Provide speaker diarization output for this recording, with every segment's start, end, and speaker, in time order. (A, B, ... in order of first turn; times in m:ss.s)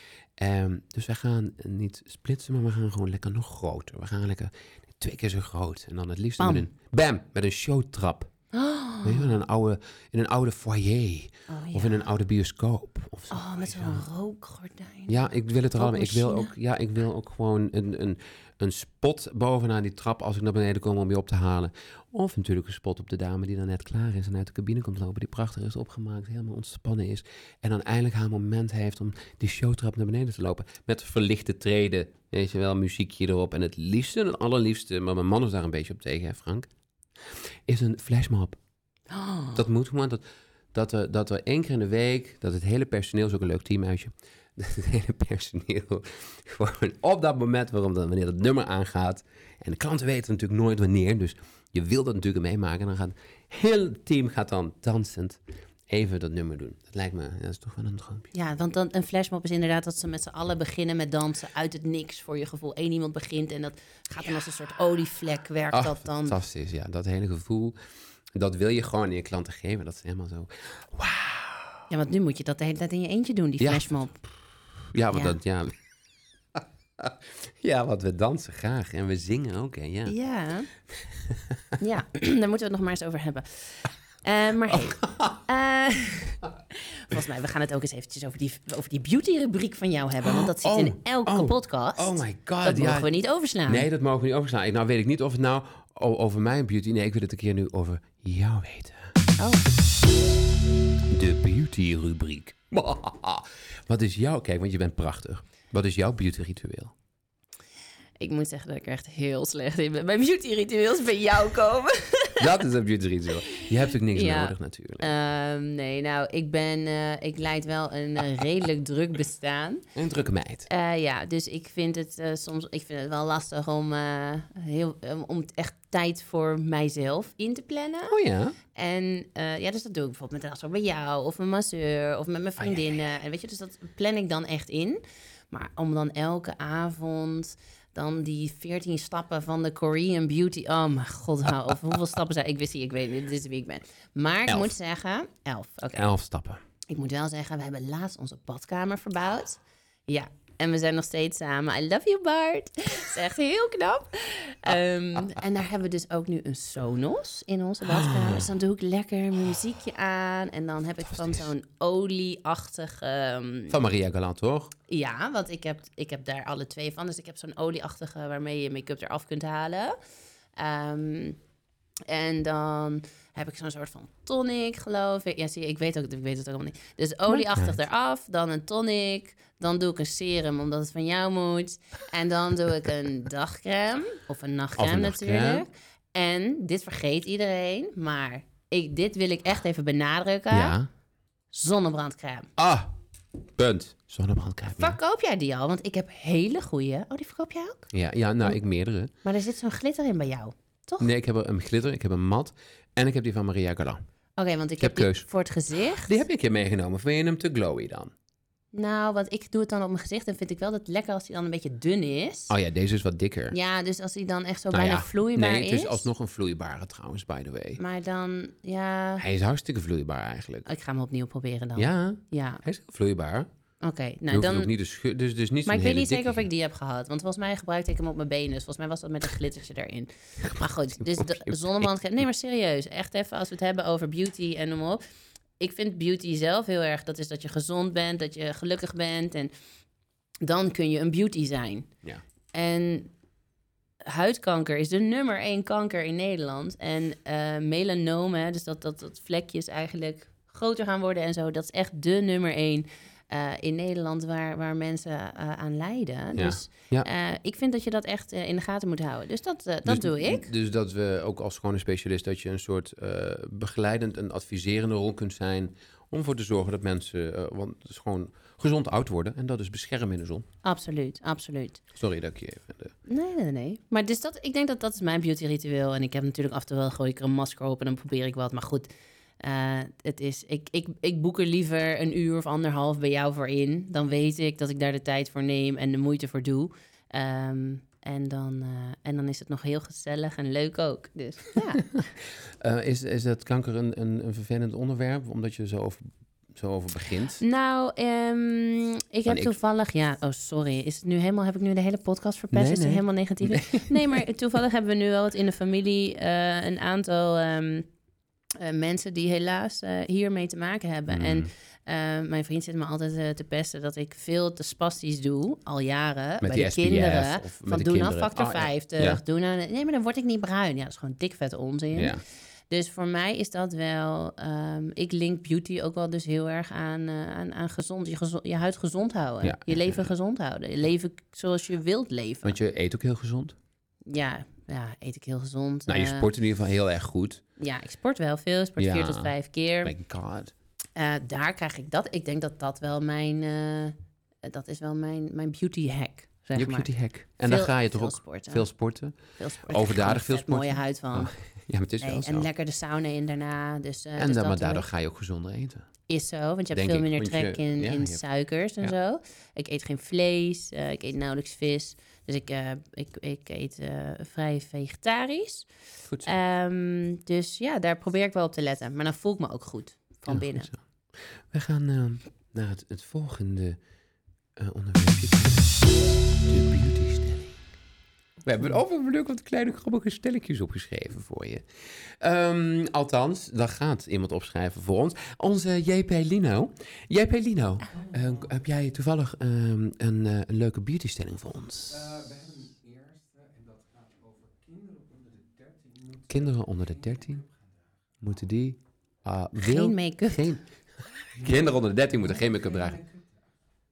0:00.4-0:08.3 A
0:06.4-0:06.7 B
0:08.5-0:09.3 B
0:09.0-0:14.0 A
0:11.5-0:12.0 B
0:13.3-0:15.1 B
0:15.1-0:38.6 A
0:15.8-0:16.5 B
0:39.1-0:39.6 B
0:39.5-0:58.3 A
0:58.3-1:06.4 B
1:05.7-1:07.8 A
1:08.3-1:11.8 A
1:11.9-1:14.1 B
1:13.6-1:15.7 A
1:15.1-1:15.4 B
1:16.6-1:20.1 A
1:20.0-1:20.7 B
1:21.0-1:21.6 A
1:21.8-1:33.9 B
1:24.7-1:25.4 A
1:30.2-1:33.1 A
1:33.6-1:39.2 A
1:39.4-1:39.6 B
1:41.1-1:46.9 A
1:48.2-1:52.4 B
1:52.4-1:55.1 A
1:53.5-1:59.8 B
1:59.9-2:00.7 A
2:00.7-2:08.2 B
2:08.1-2:08.6 A
2:08.7-2:26.1 B
2:24.5-2:24.7 A
2:25.9-2:26.6 A
2:26.9-2:43.7 B
2:37.9-2:38.4 A
2:41.1-2:41.5 A
2:43.7-2:44.7 A
2:44.9-2:50.0 B
2:50.6-2:51.4 B
2:52.1-3:10.8 B
2:57.3-2:57.8 A
3:04.8-3:05.6 A
3:10.5-3:10.9 A
3:11.5-3:12.5 B
3:12.6-3:12.9 A
3:13.6-3:15.0 A
3:14.8-3:17.9 B
3:17.9-3:19.1 A
3:19.2-3:21.1 B
3:21.0-3:24.0 A
3:24.4-3:26.2 B
3:24.8-3:25.3 A
3:26.0-3:28.1 A
3:28.7-3:32.5 B
3:32.5-3:33.6 A
3:33.5-3:36.0 B
3:34.7-3:37.8 A
3:37.8-3:39.2 B
3:39.2-3:40.7 A
3:40.6-3:42.6 B
3:41.8-3:43.5 A
3:43.8-3:44.7 B
3:44.3-3:46.5 A
3:45.6-3:55.0 B
3:50.4-3:51.9 A
3:55.6-3:59.5 B
4:00.4-4:01.9 B
4:02.5-4:03.1 B
4:04.0-4:20.5 B
4:16.4-4:17.1 A
4:19.8-4:30.4 A
4:30.6-4:31.8 B
4:31.9-4:32.9 A
4:33.1-4:38.9 B
4:39.4-4:51.9 B
4:52.6-4:57.4 A
4:57.4-5:07.9 B
4:59.2-4:59.6 A
5:02.5-5:04.2 A
5:08.6-5:22.2 B
5:11.1-5:11.5 A
5:16.4-5:19.2 A
5:21.9-5:22.2 A
5:22.7-5:32.6 B
5:29.4-5:30.1 A
5:32.4-5:33.6 A
5:34.1-5:36.3 B
5:35.9-5:37.4 A
5:37.6-5:39.9 B
5:38.8-5:40.5 A
5:41.0-5:51.3 B
5:46.6-5:52.5 A
5:52.0-5:54.8 B
5:54.2-5:55.9 A
5:56.1-6:05.7 B
5:56.7-5:58.2 A
6:06.0-6:06.3 A
6:06.2-6:10.7 B
6:10.3-6:13.8 A
6:14.6-6:17.6 A
6:18.4-6:32.0 A
6:27.9-6:28.6 C
6:31.9-6:38.3 C
6:36.3-6:37.4 A
6:38.2-6:40.6 A
6:39.6-6:40.6 B
6:41.3-6:43.0 A
6:41.3-6:43.5 C